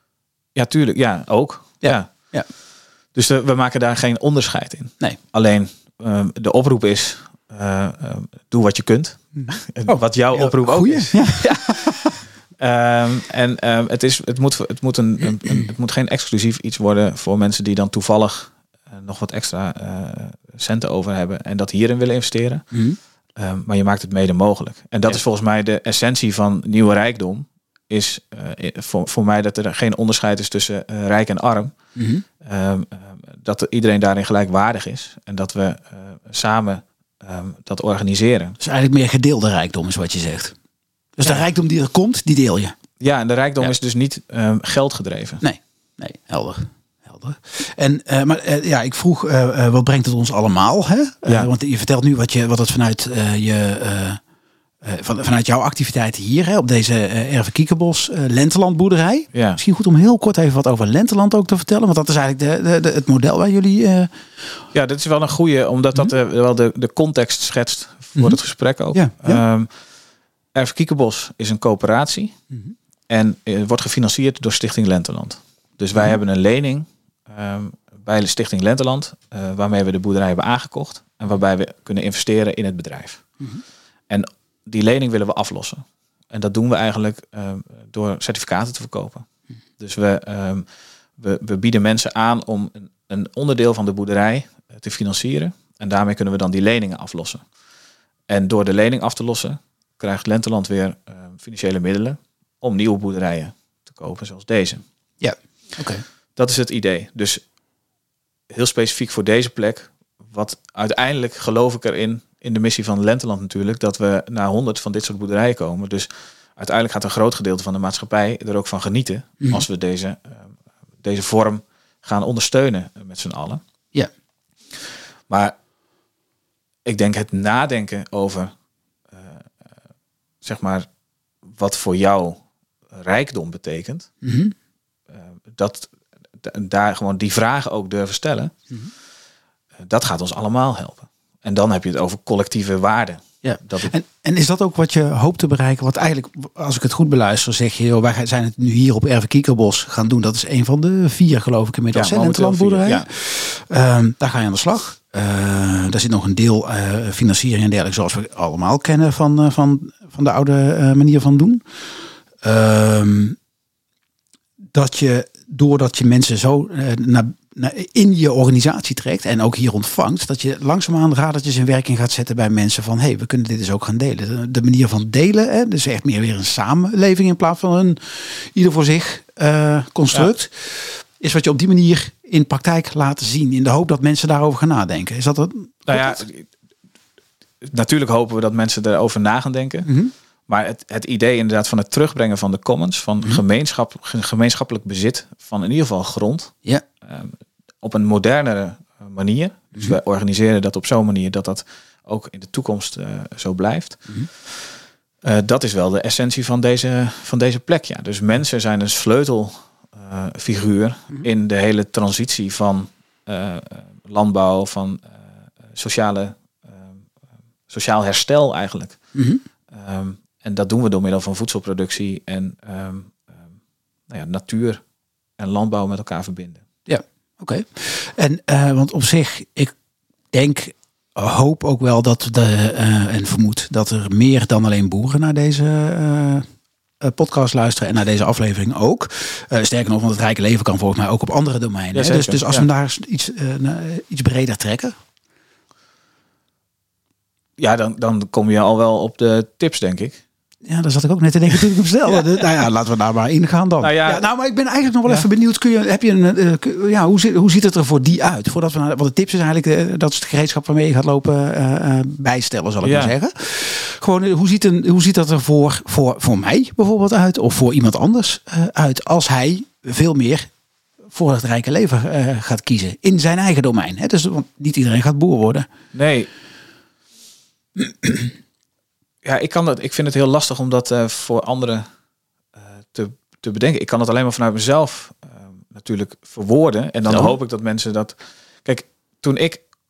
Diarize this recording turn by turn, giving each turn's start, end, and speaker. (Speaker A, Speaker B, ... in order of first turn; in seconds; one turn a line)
Speaker A: 0.5-2.3
Speaker B: 1.8-2.5
Speaker A: 3.1-11.9
Speaker B: 9.3-12.2
Speaker A: 12.6-22.7
Speaker B: 22.7-23.0
Speaker A: 23.3-31.7
Speaker B: 31.9-32.2
Speaker A: 32.4-38.6
Speaker B: 38.6-40.5
Speaker B: 41.1-42.8
Speaker A: 43.0-45.4
Speaker B: 45.4-54.2
Speaker B: 54.8-64.2
Speaker A: 59.3-59.6
Speaker A: 64.7-69.7
Speaker B: 68.9-69.4
Speaker A: 70.5-72.4
Speaker A: 73.1-83.3
Speaker A: 84.1-89.2
Speaker A: 89.8-90.7
Speaker A: 91.2-97.5
Speaker A: 98.3-104.8
Speaker B: 105.2-106.0
Speaker A: 106.3-107.4
Speaker A: 108.5-123.6
Speaker A: 125.3-125.5
Speaker A: 126.8-128.5
Speaker A: 129.1-129.5
Speaker A: 130.4-130.9
Speaker A: 131.4-134.1
Speaker B: 134.2-134.5
Speaker A: 135.1-138.5
Speaker A: 139.8-143.9
Speaker B: 143.4-161.8
Speaker A: 151.9-153.1
Speaker B: 162.4-163.4
Speaker B: 164.7-186.2
Speaker A: 185.8-186.5
Speaker A: 187.6-189.9
Speaker B: 189.8-190.1
Speaker A: 190.5-204.7
Speaker A: 205.2-217.0
Speaker A: 217.7-219.0
Speaker B: 219.1-219.4
Speaker A: 219.7-223.5
Speaker A: 224.1-224.8
Speaker A: 225.4-226.6
Speaker B: 226.8-229.7
Speaker B: 230.3-236.5
Speaker B: 237.0-244.9
Speaker A: 241.9-242.7
Speaker A: 247.6-250.2
Speaker B: 250.6-270.5
Speaker A: 253.8-254.3
Speaker A: 262.8-263.1
Speaker B: 271.1-275.6
Speaker A: 275.9-276.3
Speaker B: 277.8-278.3
Speaker A: 279.2-281.9
Speaker A: 282.6-289.6
Speaker B: 287.1-287.3